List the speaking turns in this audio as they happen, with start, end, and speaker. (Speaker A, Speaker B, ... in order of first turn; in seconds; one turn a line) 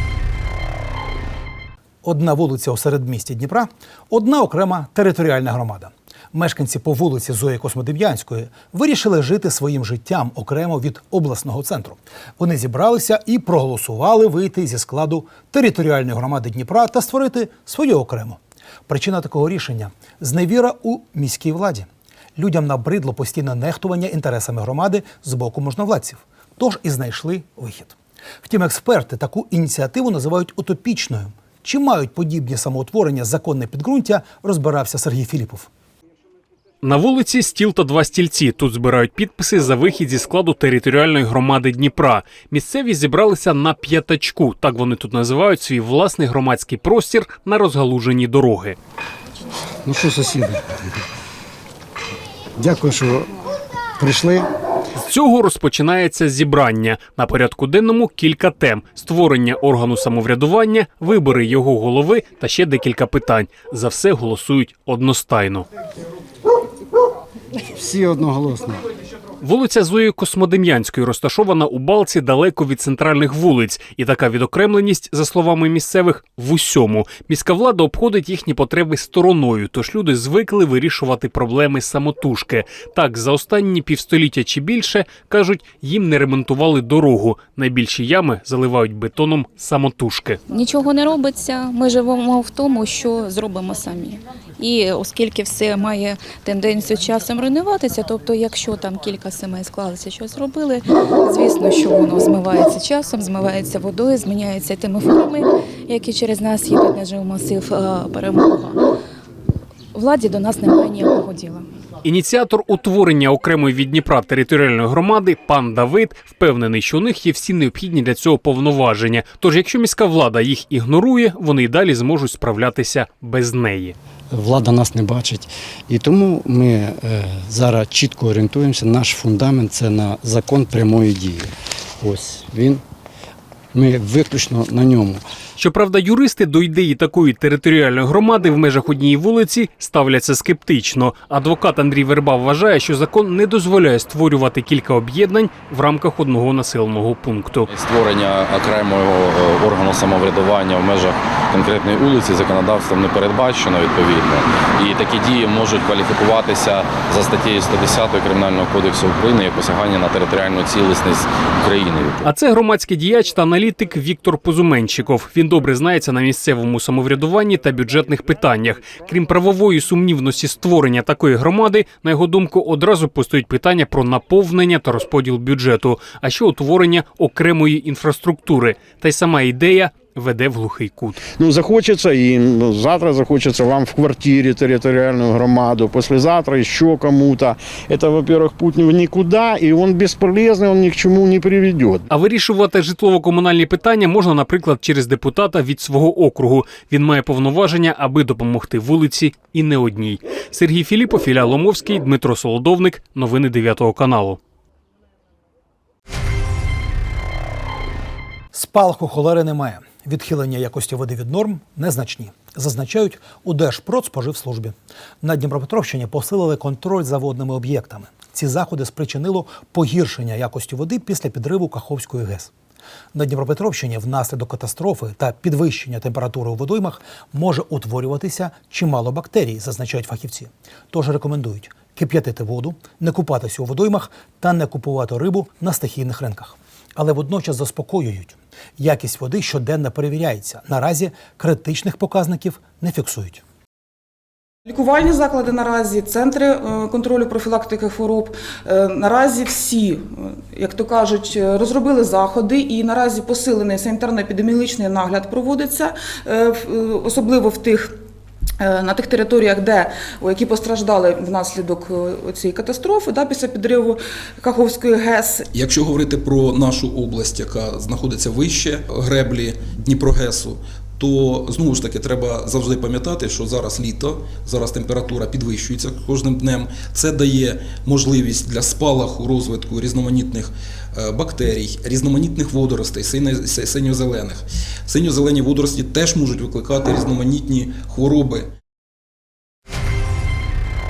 Speaker A: 2.0-35.7
Speaker B: 36.8-48.8
Speaker C: 49.9-50.5
Speaker C: 52.6-53.2
Speaker C: 54.0-54.4
Speaker B: 55.0-65.7
Speaker C: 67.8-68.8
Speaker B: 69.4-90.4
Speaker D: 90.5-108.8
Speaker D: 109.9-111.7
Speaker B: 112.0-123.9
Speaker C: 124.3-131.5
Speaker C: 132.0-132.8
Speaker C: 133.7-135.2
Speaker B: 135.6-147.7
Speaker E: 147.7-162.3
Speaker B: 162.2-181.2
Speaker F: 181.3-192.0
Speaker B: 192.1-204.4
Speaker A: 208.5-222.5
Speaker A: 223.1-243.4
Speaker G: 244.7-258.0
Speaker G: 258.6-265.5
Speaker H: 265.5-288.5